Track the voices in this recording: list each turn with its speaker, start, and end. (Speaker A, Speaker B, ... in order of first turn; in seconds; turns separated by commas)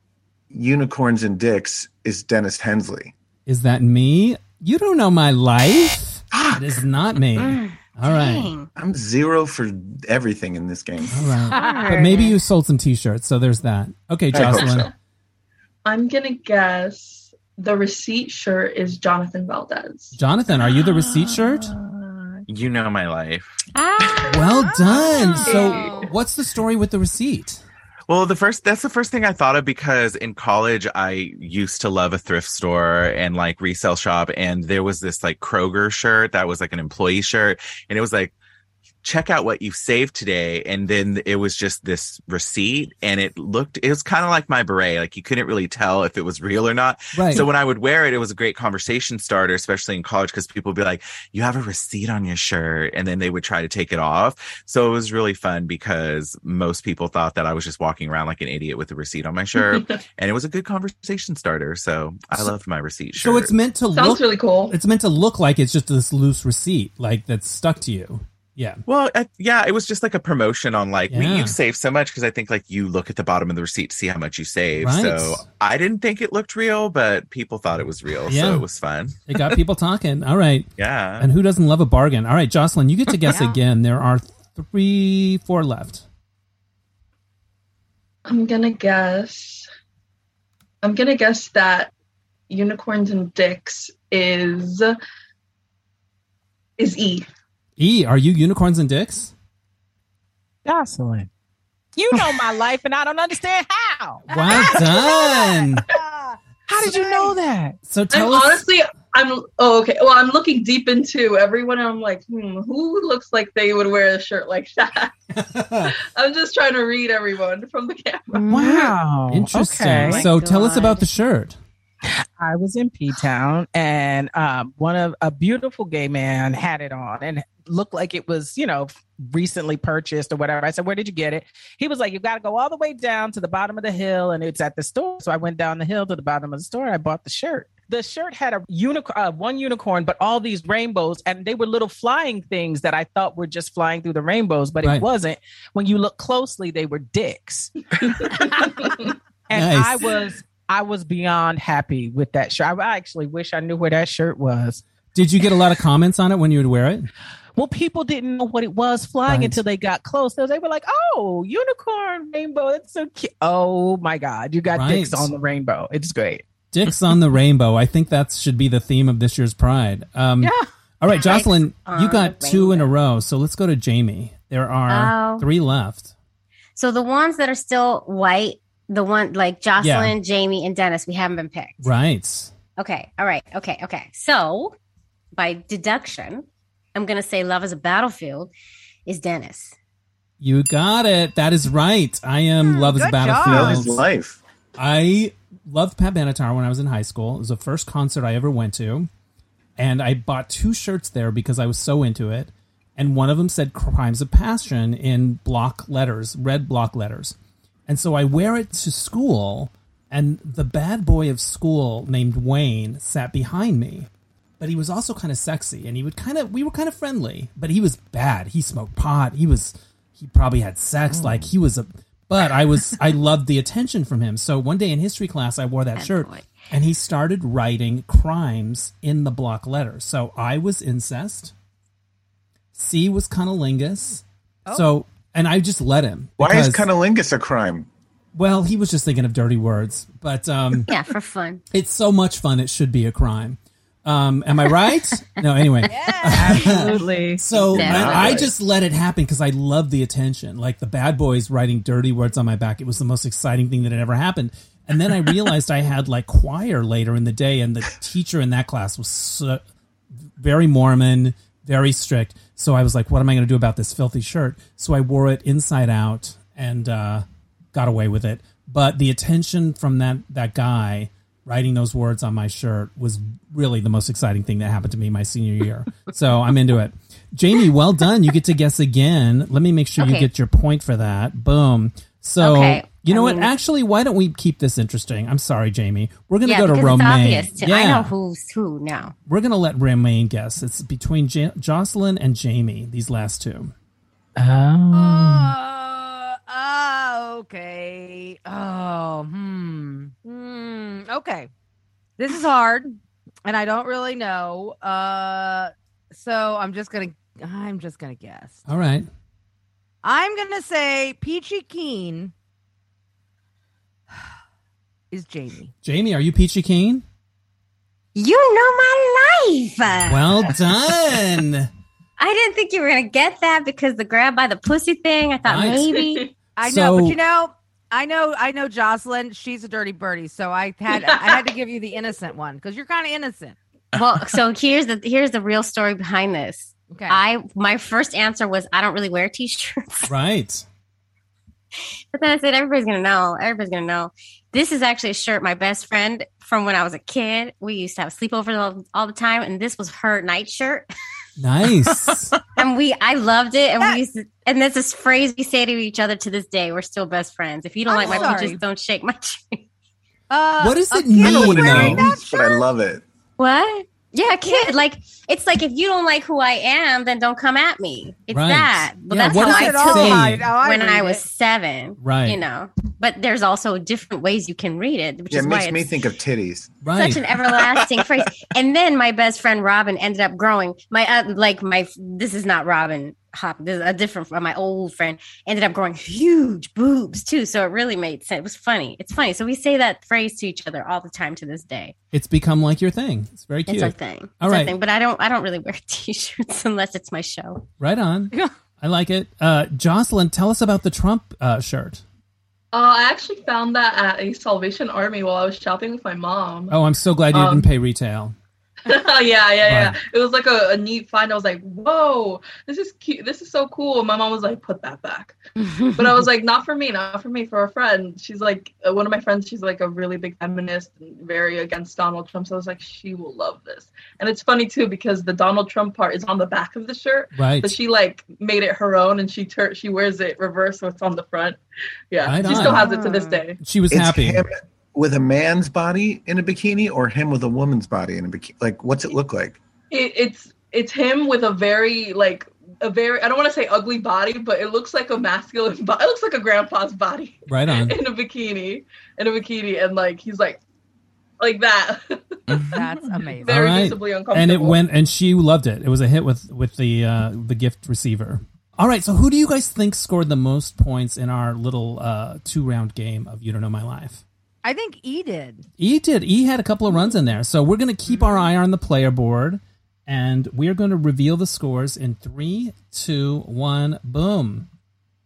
Speaker A: 0.5-3.1, Speaker B: 3.5-8.5, Speaker A: 6.3-6.8, Speaker C: 7.4-8.7, Speaker A: 8.8-11.3, Speaker B: 11.1-14.9, Speaker C: 11.5-12.4, Speaker D: 11.5-11.9, Speaker A: 14.3-14.9, Speaker E: 14.4-14.8, Speaker F: 15.8-20.2, Speaker B: 20.1-21.7, Speaker E: 20.5-21.8, Speaker E: 22.5-23.6, Speaker C: 23.8-25.4, Speaker B: 24.3-27.6, Speaker D: 24.7-26.1, Speaker F: 25.4-26.1, Speaker E: 28.1-38.4, Speaker E: 39.0-63.5, Speaker B: 47.1-47.5, Speaker F: 59.5-59.9, Speaker B: 63.2-68.8, Speaker F: 64.0-64.8, Speaker E: 68.9-79.5, Speaker B: 71.1-71.6, Speaker B: 74.8-75.5, Speaker B: 78.3-78.7, Speaker B: 79.3-80.7, Speaker E: 80.8-81.3, Speaker B: 81.2-86.0, Speaker D: 83.3-83.6, Speaker F: 88.3-89.7, Speaker F: 90.8-91.9, Speaker F: 92.5-95.0, Speaker F: 96.8-97.3, Speaker B: 97.8-99.3, Speaker G: 100.7-101.3, Speaker G: 102.0-104.8, Speaker B: 104.3-105.8, Speaker D: 104.3-107.3, Speaker G: 106.7-107.8, Speaker B: 107.9-108.7, Speaker F: 108.1-115.1, Speaker B: 115.3-116.0, Speaker F: 115.9-118.6, Speaker C: 118.4-118.8, Speaker G: 118.5-120.3, Speaker B: 119.3-121.6, Speaker C: 119.9-121.0, Speaker G: 122.0-147.7, Speaker F: 148.0-149.1, Speaker G: 149.5-154.8, Speaker B: 149.5-150.1, Speaker B: 155.1-157.1, Speaker G: 157.6-166.4, Speaker B: 159.3-159.6, Speaker B: 164.7-165.3, Speaker B: 166.7-176.1, Speaker D: 170.4-170.7, Speaker C: 171.1-172.9, Speaker C: 174.9-175.5, Speaker C: 176.8-181.9, Speaker B: 179.8-180.2, Speaker B: 181.8-182.5, Speaker C: 182.8-184.8, Speaker C: 185.3-188.5, Speaker C: 189.1-189.7, Speaker B: 190.4-194.0, Speaker D: 192.6-193.8, Speaker A: 193.4-194.4, Speaker B: 194.8-199.1, Speaker B: 199.8-207.3, Speaker B: 207.9-214.1, Speaker B: 214.6-231.5, Speaker E: 221.2-221.5, Speaker C: 226.0-226.5, Speaker B: 232.8-236.8, Speaker A: 236.4-237.9, Speaker B: 238.3-240.9, Speaker C: 240.9-241.6, Speaker B: 241.7-259.6, Speaker D: 245.8-247.0, Speaker G: 246.3-247.4, Speaker A: 247.6-248.5, Speaker C: 247.7-248.5, Speaker B: 260.4-288.1, Speaker C: 280.0-280.3, Speaker C: 282.4-283.5, Speaker C: 286.4-289.1, Speaker B: 289.3-293.7, Speaker G: 294.4-295.5, Speaker D: 294.9-301.5, Speaker D: 302.2-308.6, Speaker B: 308.7-309.1, Speaker D: 310.0-312.3, Speaker D: 315.1-315.7, Speaker B: 315.8-317.0, Speaker C: 318.1-320.3, Speaker B: 320.1-321.7, Speaker C: 322.2-326.3, Speaker B: 325.4-326.0, Speaker F: 326.0-326.3, Speaker D: 326.6-333.6, Speaker B: 326.6-327.2, Speaker F: 330.9-331.5, Speaker E: 333.9-334.4, Speaker C: 333.9-340.1, Speaker D: 336.9-337.2, Speaker B: 340.1-340.6, Speaker C: 341.8-350.9, Speaker B: 351.4-352.3, Speaker E: 351.9-352.4, Speaker C: 352.6-359.6, Speaker D: 357.9-358.6, Speaker F: 358.0-358.6, Speaker D: 360.3-362.6, Speaker B: 360.6-362.1, Speaker A: 361.2-363.0, Speaker C: 363.4-375.9, Speaker D: 364.4-364.8, Speaker B: 368.3-370.5, Speaker D: 369.3-371.2, Speaker B: 372.0-372.4, Speaker A: 375.3-376.8, Speaker B: 376.8-377.2, Speaker C: 376.9-391.9, Speaker E: 377.6-378.1, Speaker B: 392.1-394.8, Speaker C: 393.7-397.6, Speaker B: 397.8-402.0, Speaker F: 402.7-406.8, Speaker B: 406.7-408.4, Speaker F: 407.3-407.7, Speaker F: 408.9-431.6, Speaker B: 409.6-410.0, Speaker B: 427.4-427.7, Speaker F: 432.1-433.6, Speaker B: 432.2-432.9, Speaker C: 432.4-433.4, Speaker B: 433.6-434.4, Speaker A: 433.9-439.6, Speaker F: 439.9-450.6, Speaker B: 447.5-448.0, Speaker F: 451.4-454.8, Speaker E: 452.5-452.8, Speaker D: 452.7-453.7, Speaker B: 453.4-464.2, Speaker D: 464.6-465.6, Speaker B: 465.8-474.7